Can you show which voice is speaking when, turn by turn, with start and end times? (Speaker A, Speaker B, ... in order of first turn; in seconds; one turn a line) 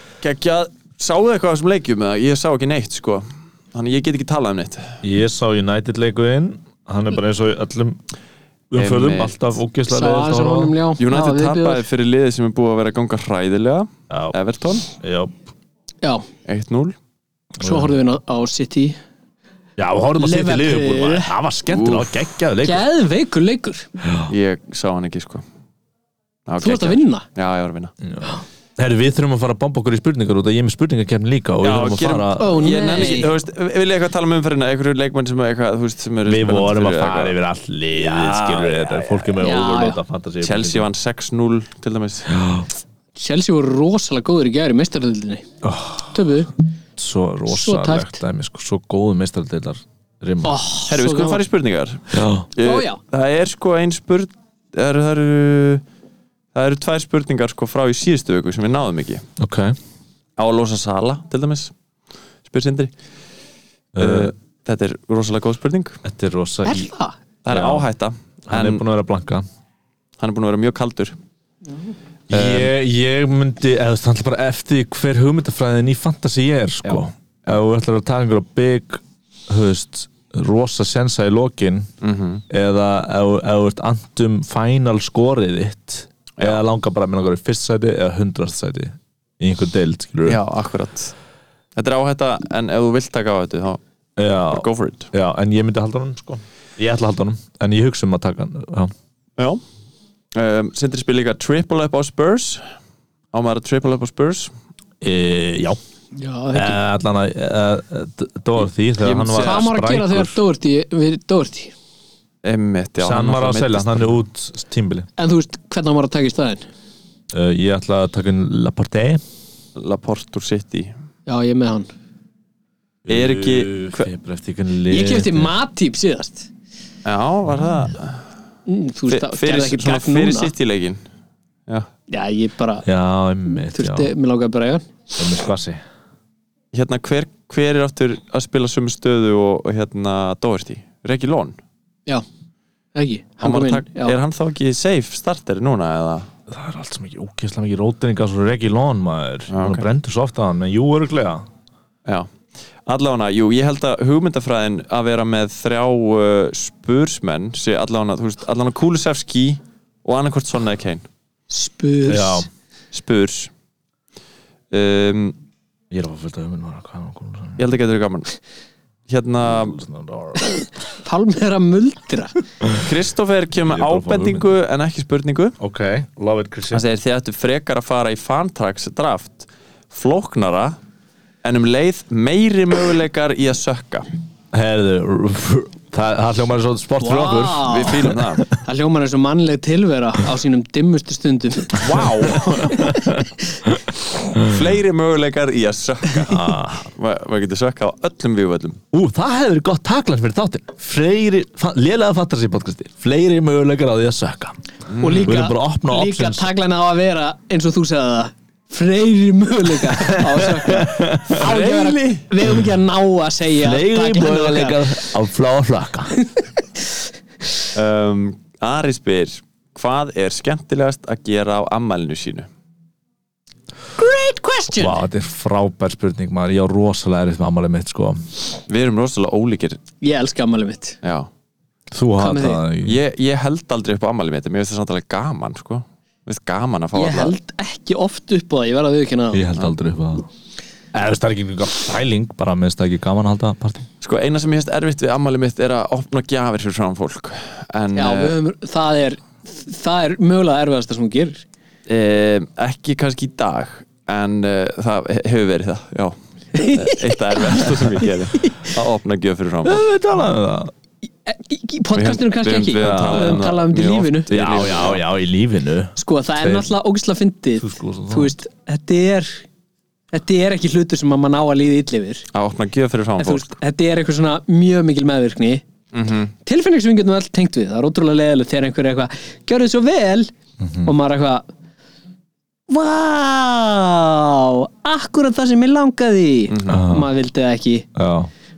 Speaker A: 0.2-5.0
Speaker B: 5.0-8.0
Speaker B: 8.7-10.8
Speaker A: 8.8-9.4
Speaker C: 9.9-11.8
Speaker A: 11.0-14.9
Speaker B: 14.1-14.4
Speaker B: 14.9-15.4
Speaker A: 16.4-16.9
Speaker B: 17.6-17.9
Speaker C: 17.6-19.0
Speaker B: 19.8-22.9
Speaker C: 20.2-21.3
Speaker A: 21.7-22.1
Speaker C: 22.6-23.9
Speaker B: 24.0-24.3
Speaker A: 24.3-25.4
Speaker A: 26.5-27.9
Speaker C: 26.6-27.2
Speaker B: 28.0-33.2
Speaker A: 31.6-37.4
Speaker C: 32.4-33.3
Speaker B: 36.2-40.9
Speaker A: 38.0-39.5
Speaker C: 39.4-40.0
Speaker A: 40.4-42.4
Speaker B: 42.3-42.7
Speaker C: 43.2-45.5
Speaker B: 45.6-46.2
Speaker C: 46.1-46.5
Speaker B: 47.0-50.6
Speaker C: 47.5-48.2
Speaker C: 50.4-51.4
Speaker A: 50.9-55.8
Speaker B: 52.1-52.5
Speaker C: 52.6-53.0
Speaker A: 56.5-59.2
Speaker B: 59.4-59.8
Speaker A: 60.4-61.7
Speaker A: 62.4-62.9
Speaker B: 63.9-64.3
Speaker A: 64.0-66.0
Speaker B: 66.0-66.9
Speaker C: 66.6-67.2
Speaker A: 67.4-68.8
Speaker B: 67.5-67.9
Speaker B: 68.5-69.5
Speaker A: 70.2-71.2
Speaker A: 72.3-72.7
Speaker B: 72.3-81.9
Speaker A: 76.8-77.5
Speaker A: 82.0-82.4
Speaker B: 82.5-90.4
Speaker A: 90.2-91.1
Speaker A: 91.8-93.8
Speaker B: 94.2-98.9
Speaker A: 94.5-95.1
Speaker A: 100.3-102.7
Speaker A: 103.3-104.5
Speaker B: 105.0-105.8
Speaker C: 106.1-106.8
Speaker B: 106.5-110.4
Speaker A: 109.0-109.7
Speaker C: 109.4-111.7
Speaker A: 112.4-114.2
Speaker B: 113.0-115.1
Speaker C: 115.2-116.6
Speaker B: 117.3-119.2
Speaker A: 119.8-120.9
Speaker C: 121.3-121.9
Speaker B: 123.1-125.5
Speaker A: 123.1-124.1
Speaker C: 124.9-126.5
Speaker A: 127.1-128.3
Speaker C: 128.7-130.5
Speaker A: 129.1-131.0
Speaker C: 132.1-132.9
Speaker B: 132.8-134.1
Speaker C: 133.5-134.9
Speaker B: 135.2-135.8
Speaker A: 136.7-141.6
Speaker C: 142.9-144.2
Speaker A: 143.4-146.3
Speaker B: 146.5-151.4
Speaker A: 149.5-149.9
Speaker A: 152.1-152.3
Speaker A: 152.8-161.1
Speaker C: 161.5-162.5
Speaker B: 162.1-162.5
Speaker A: 162.9-163.5
Speaker A: 164.7-165.4
Speaker B: 165.9-167.6
Speaker A: 167.6-168.3
Speaker A: 169.1-169.8
Speaker B: 169.5-170.4
Speaker C: 170.6-172.4
Speaker A: 172.8-175.6
Speaker B: 173.6-174.5
Speaker B: 175.6-176.8
Speaker A: 176.7-180.8
Speaker A: 181.4-184.1
Speaker B: 184.5-188.5
Speaker C: 187.0-193.0
Speaker A: 187.6-188.4
Speaker A: 191.8-192.9
Speaker B: 192.4-193.2
Speaker A: 194.4-198.8
Speaker B: 196.3-196.9
Speaker B: 198.9-204.6
Speaker A: 204.9-205.4
Speaker C: 205.0-215.1
Speaker B: 205.2-206.5
Speaker B: 210.0-211.4
Speaker A: 211.3-212.3
Speaker B: 213.6-216.2
Speaker A: 217.8-222.5
Speaker C: 224.0-225.0
Speaker B: 224.8-228.2
Speaker A: 228.7-229.8
Speaker C: 230.0-231.0
Speaker A: 231.0-231.3
Speaker B: 231.9-233.0
Speaker C: 232.2-232.6
Speaker A: 232.8-237.4
Speaker C: 236.9-239.5
Speaker B: 239.3-240.3
Speaker B: 240.9-243.9
Speaker A: 244.0-248.4
Speaker C: 247.9-251.4
Speaker A: 251.9-259.8
Speaker C: 256.6-257.6
Speaker B: 259.6-260.7
Speaker C: 261.3-264.3
Speaker A: 261.9-265.0
Speaker B: 262.8-263.4
Speaker B: 264.3-266.7
Speaker C: 266.0-269.4
Speaker B: 267.6-268.3
Speaker C: 270.1-272.3
Speaker A: 272.3-273.6
Speaker C: 273.2-275.6
Speaker A: 275.9-276.3
Speaker C: 276.4-280.3
Speaker B: 280.6-280.9
Speaker C: 280.8-281.4
Speaker C: 282.7-287.9
Speaker A: 286.5-286.8
Speaker B: 286.7-287.1
Speaker B: 287.9-288.3